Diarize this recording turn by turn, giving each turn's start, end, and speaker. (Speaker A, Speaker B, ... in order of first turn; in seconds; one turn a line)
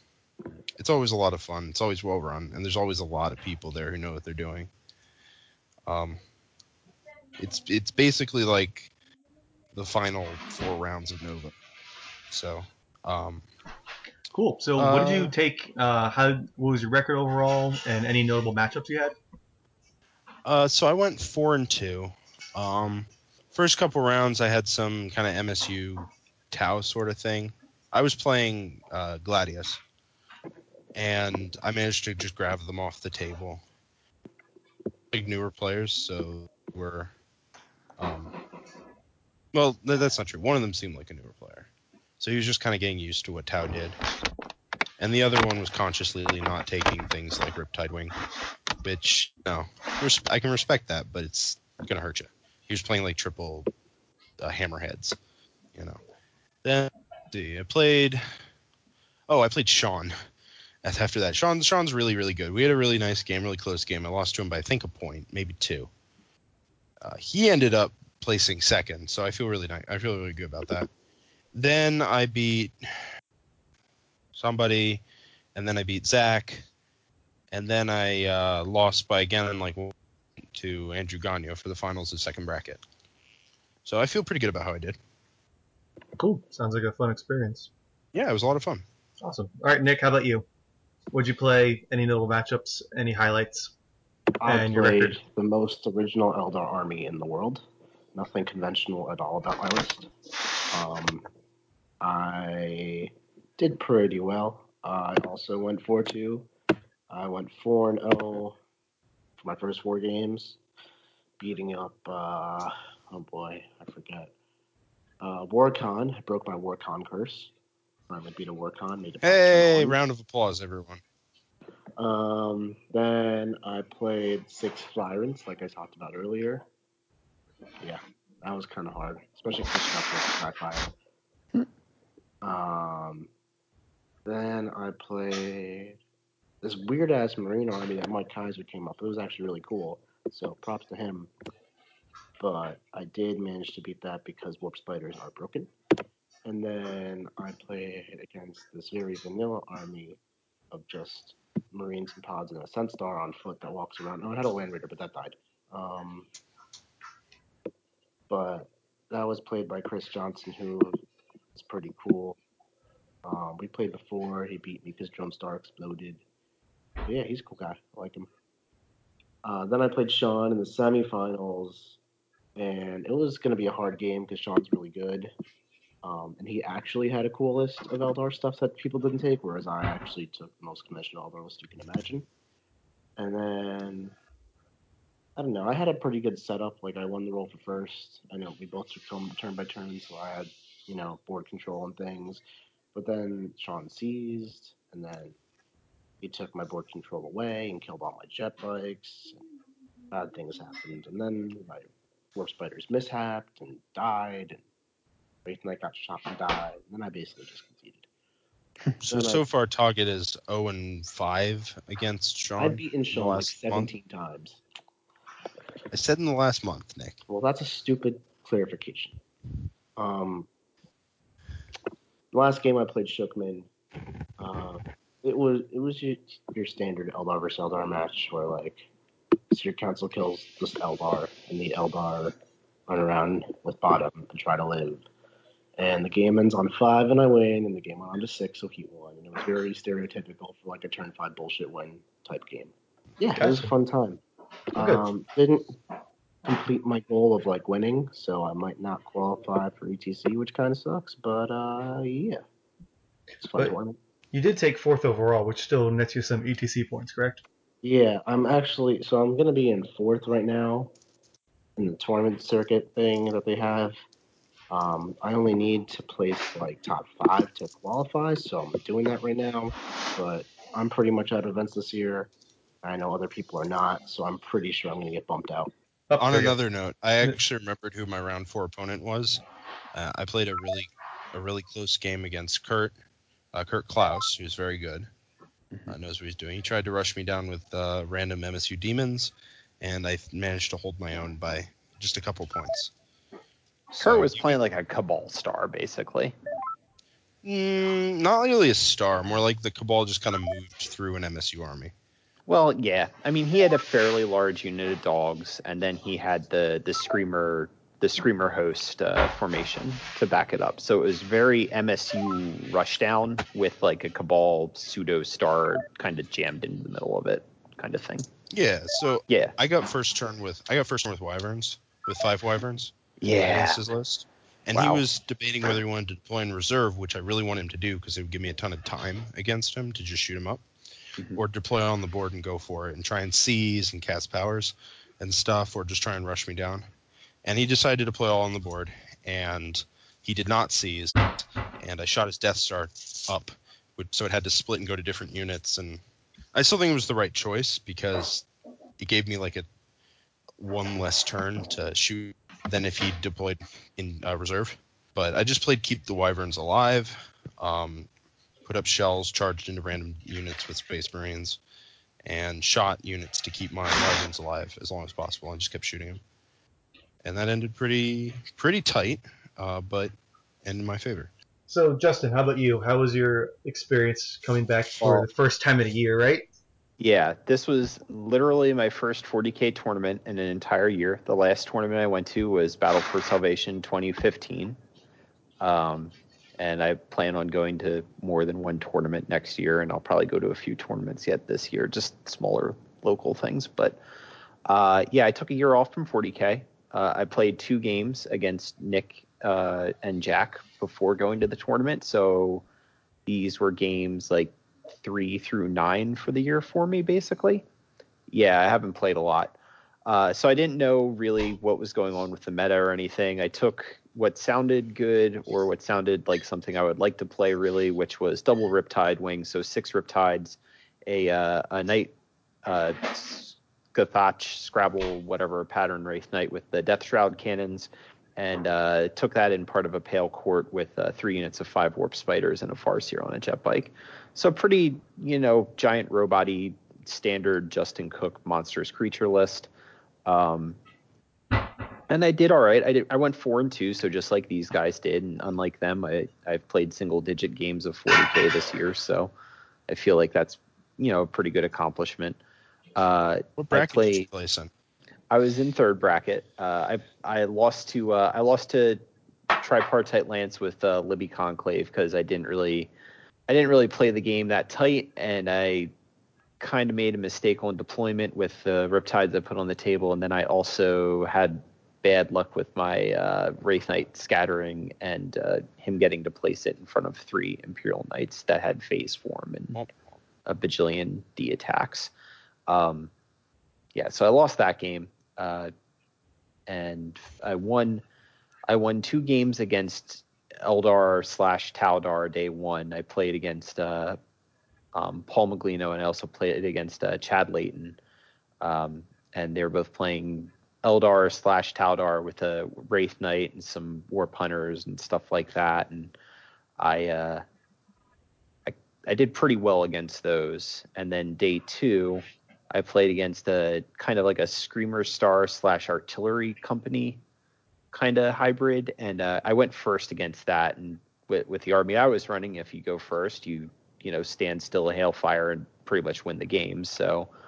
Speaker A: 0.8-4.7
Speaker A: 5.9-6.2
Speaker A: 7.4-8.9
Speaker A: 9.7-11.5
Speaker A: 12.3-13.4
Speaker B: 14.3-19.1
Speaker A: 14.8-15.3
Speaker A: 20.4-29.8
Speaker A: 30.9-33.6
Speaker A: 35.1-37.1
Speaker A: 38.0-38.3
Speaker A: 39.5-41.7
Speaker A: 42.2-44.0
Speaker A: 45.0-48.1
Speaker A: 48.8-53.7
Speaker A: 54.4-55.1
Speaker A: 56.6-58.2
Speaker A: 59.3-60.1
Speaker A: 60.8-65.9
Speaker A: 67.0-70.9
Speaker A: 71.5-73.0
Speaker A: 74.3-75.0
Speaker A: 75.5-76.6
Speaker A: 77.5-79.9
Speaker A: 80.5-82.8
Speaker A: 83.8-85.0
Speaker B: 86.2-87.7
Speaker A: 88.1-88.8
Speaker B: 89.2-90.5
Speaker B: 91.1-93.7
Speaker C: 94.4-100.1
Speaker B: 94.5-95.2
Speaker C: 100.7-101.2
Speaker C: 102.0-106.5
Speaker C: 107.1-108.6
Speaker C: 109.4-110.6
Speaker C: 111.4-114.3
Speaker C: 115.2-117.5
Speaker C: 118.1-120.0
Speaker A: 119.2-121.0
Speaker C: 122.0-126.6
Speaker C: 127.8-130.9
Speaker C: 132.4-133.3
Speaker C: 134.2-136.0
Speaker C: 136.6-141.3
Speaker C: 142.4-145.7
Speaker C: 146.4-150.2
Speaker C: 150.7-156.3
Speaker C: 158.3-161.0
Speaker C: 161.5-162.4
Speaker C: 163.2-166.2
Speaker C: 167.0-168.3
Speaker C: 169.4-172.0
Speaker C: 172.5-175.3
Speaker C: 176.0-182.3
Speaker C: 183.2-184.2
Speaker C: 185.3-192.4
Speaker C: 192.9-195.4
Speaker C: 196.2-199.4
Speaker C: 200.1-204.6
Speaker C: 205.4-208.1
Speaker A: 209.0-213.9
Speaker C: 209.1-209.4
Speaker C: 212.6-214.6
Speaker A: 215.9-217.2
Speaker C: 217.3-219.2
Speaker C: 219.9-220.5
Speaker C: 222.3-223.7
Speaker C: 224.4-228.9
Speaker C: 229.5-235.0
Speaker C: 235.8-244.2
Speaker B: 243.4-243.7
Speaker C: 244.7-245.7
Speaker B: 244.8-245.0
Speaker C: 246.4-252.4
Speaker C: 253.4-254.0
Speaker B: 254.3-257.4
Speaker C: 257.8-260.9
Speaker C: 261.8-264.0
Speaker C: 264.7-272.3
Speaker C: 272.8-275.7
Speaker B: 276.1-276.5
Speaker A: 276.2-279.4
Speaker A: 279.9-282.9
Speaker A: 283.5-285.1
Speaker A: 285.9-292.9
Speaker A: 293.9-294.6
Speaker D: 294.0-296.3
Speaker A: 297.4-301.9
Speaker D: 302.5-318.3
Speaker A: 318.5-330.6
Speaker D: 319.3-319.5
Speaker D: 323.2-323.8
Speaker D: 324.7-325.0
Speaker A: 331.4-336.8
Speaker A: 337.4-346.0
Speaker A: 346.5-348.4
Speaker A: 349.0-349.6
Speaker A: 350.6-358.1
Speaker A: 358.6-361.6
Speaker A: 362.2-366.2
Speaker A: 367.2-370.1
Speaker A: 370.6-371.3
Speaker B: 371.7-376.5
Speaker D: 377.0-384.8
Speaker D: 385.6-394.0
Speaker D: 394.7-402.6
Speaker D: 403.2-407.6
Speaker D: 408.3-422.1
Speaker D: 422.6-439.7
Speaker D: 440.2-440.8
Speaker D: 442.1-449.3
Speaker D: 449.9-452.4
Speaker D: 452.9-454.3
Speaker A: 453.6-454.7
Speaker D: 455.3-459.0
Speaker D: 459.6-462.9
Speaker D: 463.5-465.9
Speaker D: 466.6-479.8
Speaker A: 479.7-480.0
Speaker D: 480.4-482.1
Speaker D: 482.7-483.1
Speaker D: 483.9-485.7
Speaker D: 486.7-488.0
Speaker D: 488.7-494.2
Speaker D: 494.9-498.0
Speaker D: 498.6-506.1
Speaker D: 506.8-507.4
Speaker D: 508.6-517.2
Speaker D: 517.9-527.3